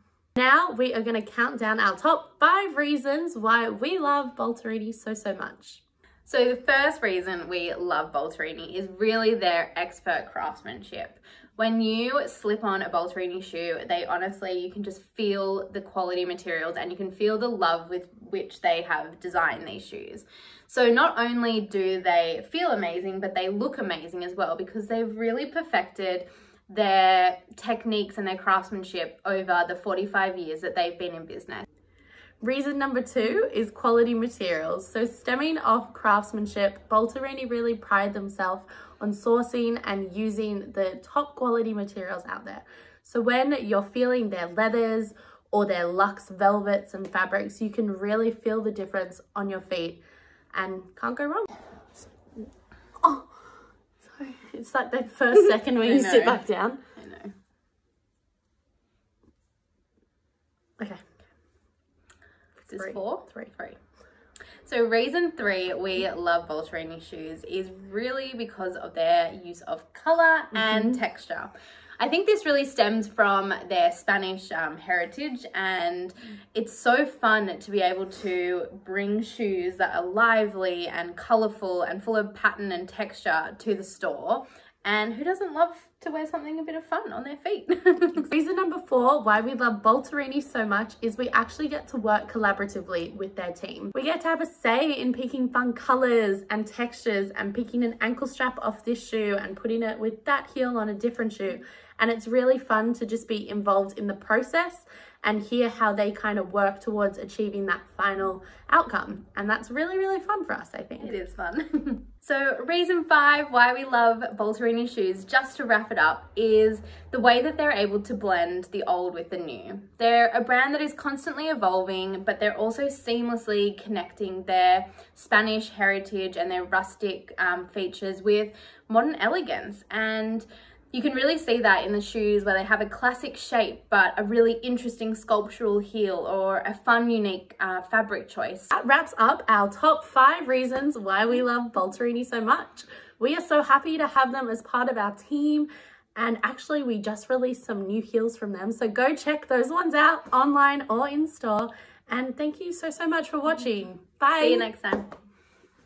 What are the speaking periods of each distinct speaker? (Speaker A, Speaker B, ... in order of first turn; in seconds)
Speaker A: 0.3-5.8, 32.4-51.5, 53.0-53.2, 54.0-56.8, 62.6-63.5, 70.5-71.0, 88.2-111.1, 138.7-154.7
Speaker B: 6.2-31.6, 55.8-56.4, 57.0-57.3, 62.7-63.8, 64.6-88.3, 111.0-138.7, 154.3-155.1